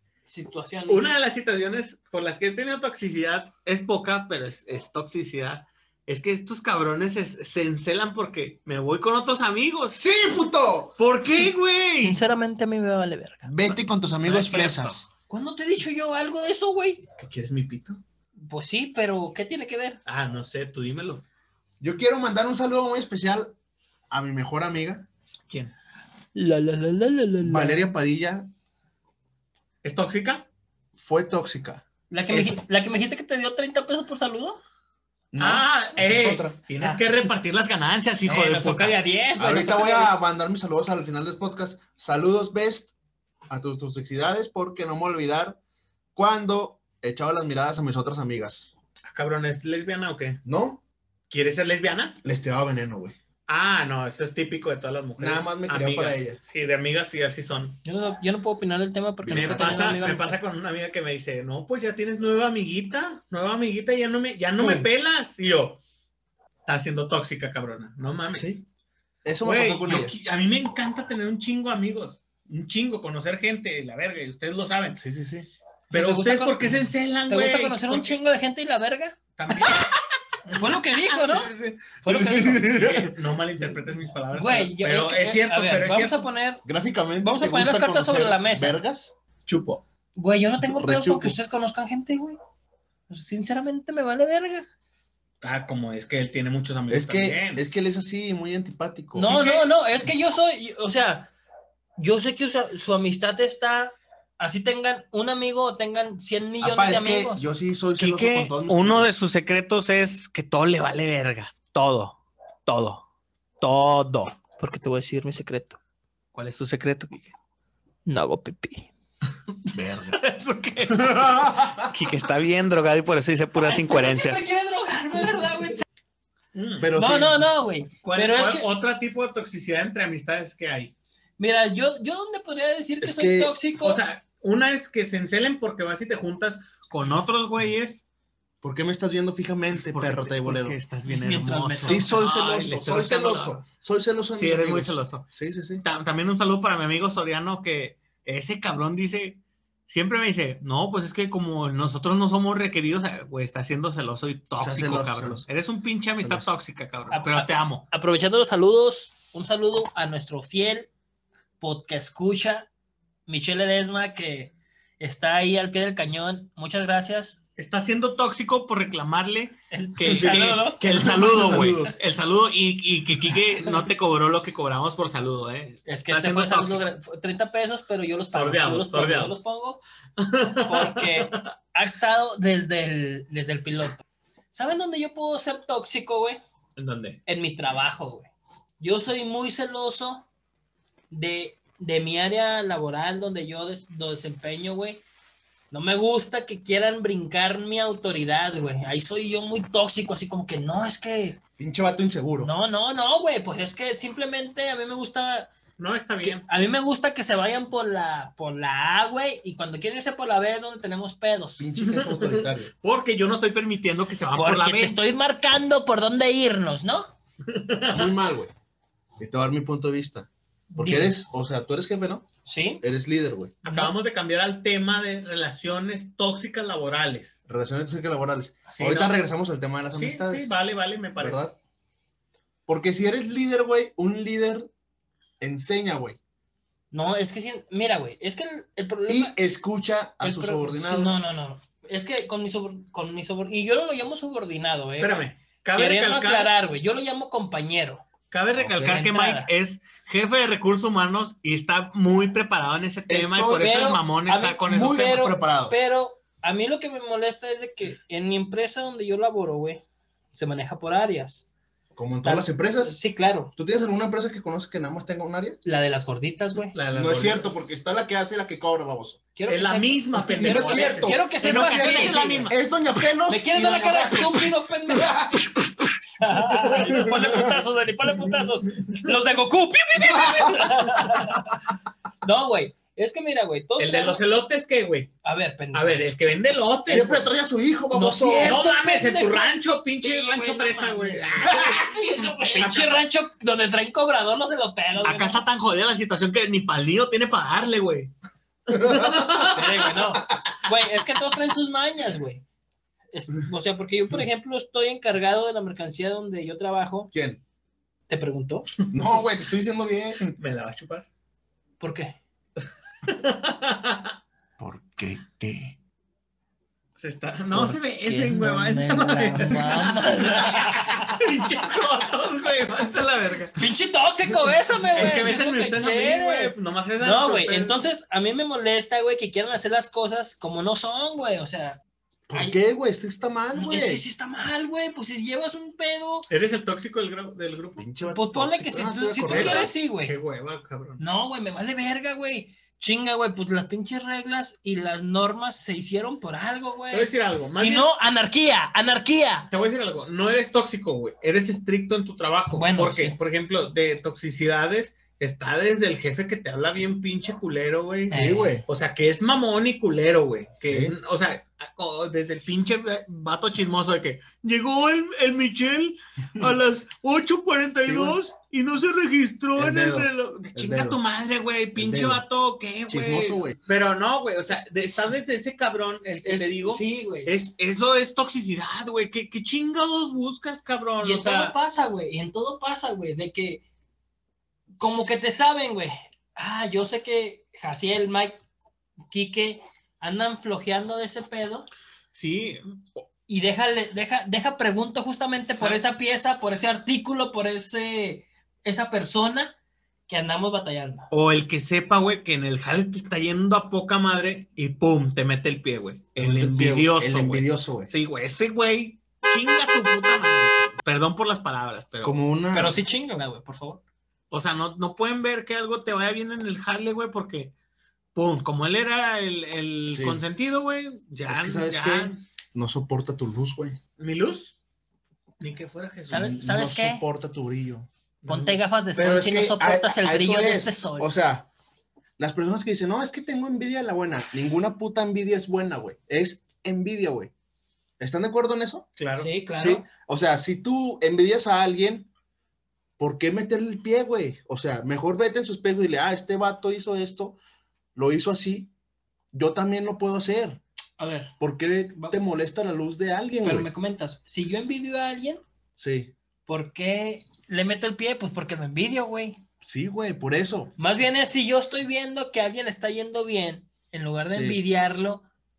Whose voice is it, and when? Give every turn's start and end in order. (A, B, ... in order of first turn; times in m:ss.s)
0:00.3-0:01.1 A
0:00.9-0:10.0 B
0:09.9-0:10.9 C
0:11.0-0:12.2 B
0:12.0-0:13.5 A
0:13.5-0:15.0 C
0:13.6-0:15.0 B
0:15.3-0:17.0 A
0:17.2-0:18.0 B
0:18.4-0:20.0 A
0:20.0-0:21.2 B
0:21.8-0:23.5 C
0:24.1-0:25.1 C
0:26.3-0:27.8 A
0:27.4-0:28.5 C
0:29.8-0:30.4 B
0:31.0-0:32.6 C
0:32.1-0:34.6 A
0:35.3-0:36.6 C
0:35.4-0:39.0 B
0:36.8-0:37.0 A
0:38.3-0:40.2 A
0:39.4-0:42.9 C
0:43.5-0:45.6 C
0:46.2-0:48.7 C
0:49.0-0:50.4 B
0:50.4-0:50.8 C
0:51.3-0:52.2 B
0:52.2-0:53.1 C
0:53.5-0:57.8 B
0:55.2-0:56.4 C
0:57.8-1:00.4 A
0:59.2-1:00.0 C
0:59.3-1:05.8 B
1:04.6-1:04.9 C
1:06.6-1:08.6 B
1:08.3-1:08.6 C
1:09.2-1:10.2 C
1:09.4-1:15.0 B
1:14.9-1:15.5 C
1:15.9-1:18.2 B
1:15.9-1:19.2 A
1:19.4-1:19.9 B
1:20.5-1:20.8 B
1:20.5-1:21.5 A
1:21.1-1:23.7 C
1:22.0-1:22.6 A
1:22.3-1:26.2 B
1:24.3-1:26.6 A
1:26.6-1:29.2 C
1:27.2-1:28.8 A
1:29.5-1:29.8 B
1:30.2-1:32.4 A
1:30.6-1:31.4 C
1:33.1-1:34.7 A
1:35.4-1:37.6 B
1:36.9-1:39.3 C
1:39.2-1:41.3 A
1:39.2-1:39.7 B
1:42.0-1:47.4 A
1:46.6-1:49.1 C
1:48.0-1:53.0 B
1:53.6-1:54.4 B
1:54.6-1:55.8 A
1:56.3-1:57.3 B
1:58.0-1:58.9 A
1:59.7-2:00.2 C
1:59.8-2:04.4 B
2:01.0-2:01.9 C
2:03.6-2:05.8 A
2:06.5-2:06.9 B
2:06.8-2:07.4 C
2:07.0-2:08.6 A
2:08.0-2:10.9 B
2:11.4-2:14.0 A
2:13.0-2:13.5 C
2:13.8-2:18.0 B
2:18.6-2:20.8 C
2:19.8-2:23.6 B
2:21.0-2:22.1 A
2:21.8-2:25.8 C
2:24.4-2:25.2 B
2:25.8-2:37.8 B
2:34.6-2:35.4 C
2:36.2-2:36.5 C
2:37.1-2:40.9 A
2:41.6-2:42.7 A
2:43.3-2:47.4 A
2:47.6-2:56.8 B
2:49.7-2:50.9 A
2:50.0-2:51.9 C
2:55.8-2:59.8 A
2:58.3-2:59.4 B
3:00.2-3:01.5 B
3:00.6-3:06.4 A
3:06.8-3:07.2 B
3:07.2-3:10.2 A
3:11.1-3:15.0 A
3:15.7-3:21.4 A
3:21.6-3:22.5 C
3:22.4-3:25.5 A
3:25.8-3:26.4 B
3:26.2-3:31.6 A
3:31.6-3:32.7 C
3:31.8-3:35.0 B
3:34.3-3:37.1 A
3:37.5-3:38.1 B
3:37.9-3:38.5 C
3:39.2-3:42.3 C
3:40.7-3:41.1 A
3:42.4-3:42.8 A
3:42.8-3:43.6 C
3:43.6-3:47.4 B
3:43.6-3:43.9 A
3:47.5-3:50.5 C
3:48.7-3:49.2 B
3:49.9-3:51.4 B
3:51.2-3:51.5 C
3:52.7-3:54.7 C
3:55.4-3:56.2 C
3:56.9-3:59.3 A
3:59.1-4:01.2 C
4:00.2-4:08.0 A
4:05.0-4:06.5 B
4:08.3-4:15.3 B
4:08.7-4:09.5 A
4:13.1-4:13.7 C
4:13.6-4:21.4 A
4:14.7-4:15.7 C
4:21.9-4:23.0 C
4:22.2-4:23.5 A
4:23.5-4:25.6 C
4:25.6-4:26.8 A
4:26.7-4:27.6 B
4:26.9-4:29.2 C
4:29.3-4:32.5 A
4:29.5-4:32.6 B
4:30.3-4:35.9 C
4:33.3-4:35.3 A
4:36.2-4:41.6 A
4:36.6-4:37.6 C
4:40.1-4:41.2 C
4:42.2-4:44.2 A
4:43.8-4:45.1 B
4:45.2-4:46.0 A
4:45.7-4:47.2 B
4:46.8-4:48.6 C
4:47.9-4:55.4 A
4:48.2-4:53.0 B
4:51.5-4:52.6 C
4:55.0-4:58.1 B
4:58.7-4:59.9 B
4:58.7-5:00.4 C
4:59.4-5:02.4 A
5:03.1-5:07.1 A
5:07.1-5:07.4 C
5:08.1-5:08.7 A
5:08.9-5:10.3 C
5:10.3-5:11.0 B
5:11.8-5:12.2 A
5:13.0-5:14.1 B
5:14.6-5:15.8 C
5:17.0-5:23.6 B
5:17.5-5:21.2 A
5:23.6-5:31.8 A
5:24.9-5:27.8 B
5:32.3-5:34.0 C
5:32.3-5:32.6 A
5:33.5-5:36.3 A
5:36.3-5:37.9 B
5:37.8-5:39.7 C
5:38.0-5:40.1 A
5:39.2-5:41.0 B
5:41.0-5:49.5 A
5:46.9-5:47.9 B
5:49.5-6:21.5 B
5:52.5-5:53.2 A
5:58.1-5:58.6 A
5:58.1-5:58.6 C
6:00.7-6:01.0 C
6:07.8-6:08.2 C
6:09.6-6:11.0 C
6:11.8-6:12.2 C
6:12.9-6:13.6 C
6:16.2-6:17.3 A
6:21.0-6:23.6 A
6:24.8-6:28.4 A
6:29.1-6:31.7 A
6:32.1-6:33.0 B
6:33.3-6:39.5 A
6:35.4-6:35.8 B
6:40.1-6:41.1 A
6:41.1-6:52.2 B
6:46.2-6:47.9 C
6:52.0-6:52.8 C
6:52.5-6:53.8 A
6:54.3-6:57.5 B
6:58.1-7:02.2 B
6:59.9-7:00.2 C
7:01.3-7:03.8 C
7:04.0-7:04.6 B
7:05.4-7:06.4 B
7:06.1-7:07.0 A
7:06.2-7:07.9 C
7:08.2-7:08.6 B
7:08.3-7:11.1 A
7:08.9-7:11.5 C
7:12.2-7:17.3 C
7:18.0-7:18.9 C
7:19.0-7:19.3 B
7:19.1-7:19.8 A
7:19.6-7:22.1 C
7:23.0-7:27.4 C
7:27.9-7:28.7 C
7:29.3-7:30.6 C
7:31.0-7:31.3 A
7:31.4-7:33.7 C
7:31.9-7:32.2 A
7:33.4-7:35.4 A
7:35.8-7:36.1 C
7:36.5-7:39.4 A
7:39.6-7:40.7 C
7:40.8-7:45.2 A
7:44.3-7:44.6 C